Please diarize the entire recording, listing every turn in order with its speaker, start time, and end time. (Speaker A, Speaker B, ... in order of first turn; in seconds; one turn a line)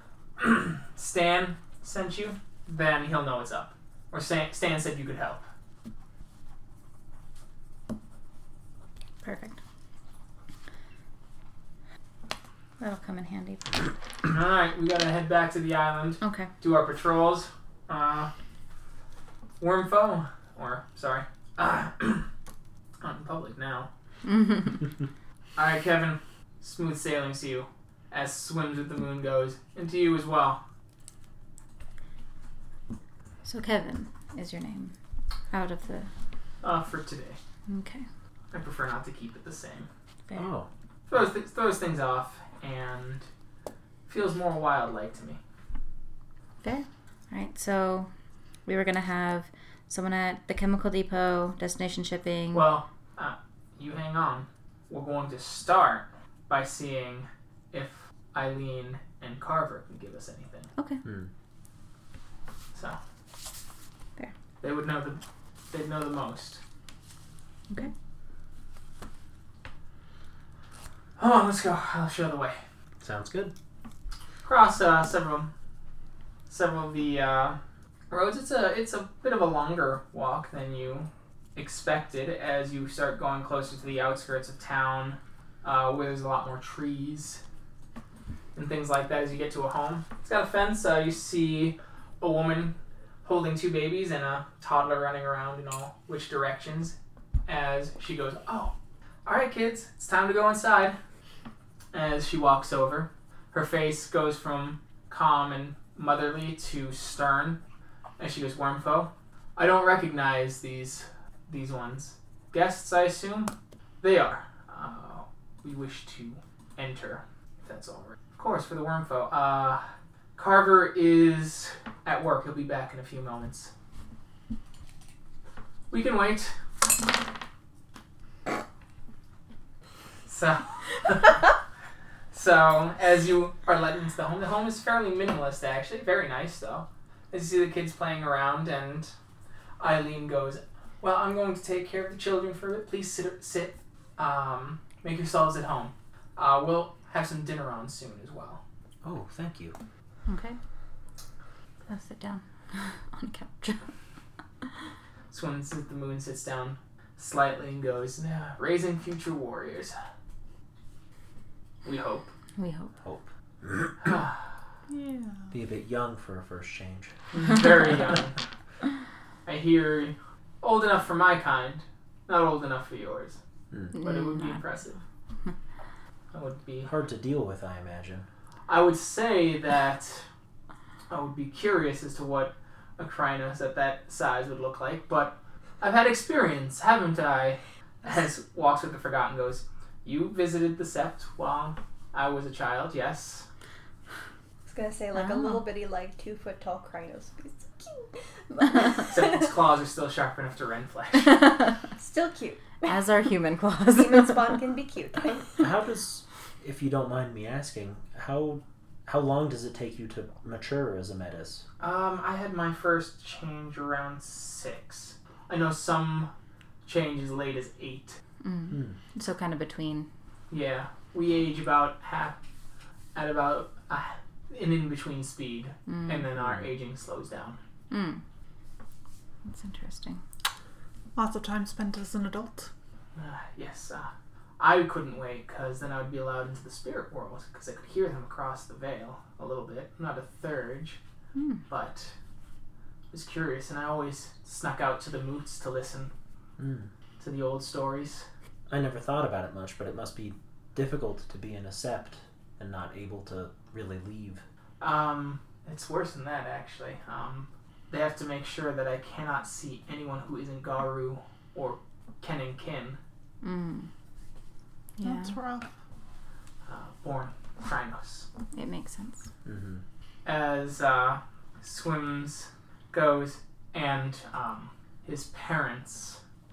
Speaker A: 0.4-5.4
Speaker B: 9.2-9.6
Speaker B: 12.8-13.9
Speaker A: 14.2-18.3
Speaker B: 16.2-16.5
Speaker A: 19.6-22.3
Speaker A: 23.0-23.9
Speaker B: 24.2-24.9
Speaker A: 25.6-30.6
Speaker B: 33.5-35.0
Speaker B: 35.5-36.1
Speaker A: 36.6-37.4
Speaker B: 37.7-38.0
Speaker A: 38.5-39.9
Speaker C: 40.4-40.7
Speaker A: 41.1-43.3
Speaker A: 44.1-45.4
Speaker B: 46.6-48.1
Speaker B: 48.7-52.7
Speaker A: 52.5-60.7
Speaker B: 60.8-61.0
Speaker C: 61.0-61.3
Speaker A: 64.6-66.6
Speaker A: 71.2-72.6
Speaker C: 73.0-73.5
Speaker A: 74.4-75.5
Speaker A: 76.5-77.6
Speaker A: 78.1-87.4
Speaker A: 88.5-97.0
Speaker A: 97.5-98.7
Speaker A: 99.2-101.0
Speaker A: 101.9-107.6
Speaker A: 108.2-119.8
Speaker A: 120.4-123.7
Speaker A: 125.9-126.5
Speaker A: 130.3-131.5
Speaker A: 132.3-139.1
Speaker A: 139.8-148.6
Speaker C: 149.0-149.8
Speaker B: 150.3-150.6
Speaker B: 151.9-153.8
Speaker A: 155.3-159.9
Speaker A: 161.8-162.3
Speaker B: 162.6-162.9
Speaker C: 163.0-164.0
Speaker A: 164.0-164.4
Speaker D: 164.9-165.5
Speaker C: 165.5-167.1
Speaker A: 167.3-168.4
Speaker A: 169.4-173.4
Speaker B: 173.9-174.6
Speaker A: 173.9-175.0
Speaker A: 176.3-176.9
Speaker C: 176.8-178.3
Speaker A: 178.7-180.3
Speaker A: 181.1-193.5
Speaker E: 194.7-199.5
Speaker B: 195.2-195.6
Speaker A: 199.1-201.5
Speaker B: 201.3-201.7
Speaker E: 202.0-203.0
Speaker B: 202.9-204.5
Speaker E: 203.9-205.6
Speaker C: 205.6-211.6
Speaker A: 211.8-216.3
Speaker A: 216.8-218.2
Speaker B: 218.4-220.1
Speaker C: 218.7-219.0
Speaker A: 220.5-222.3
Speaker A: 223.2-227.6
Speaker B: 225.9-226.3
Speaker C: 226.4-226.7
Speaker B: 227.9-228.2
Speaker B: 229.4-230.2
Speaker D: 231.2-232.7
Speaker A: 233.2-241.0
Speaker B: 241.3-241.6
Speaker A: 241.7-242.1
Speaker A: 243.1-246.1
Speaker C: 246.6-246.9
Speaker A: 247.2-248.3
Speaker C: 248.7-254.4
Speaker A: 254.8-263.0
Speaker B: 263.4-263.9
Speaker B: 265.0-265.3
Speaker D: 265.0-265.7
Speaker A: 266.7-268.3
Speaker B: 268.5-269.3
Speaker C: 269.4-269.8
Speaker A: 270.2-276.2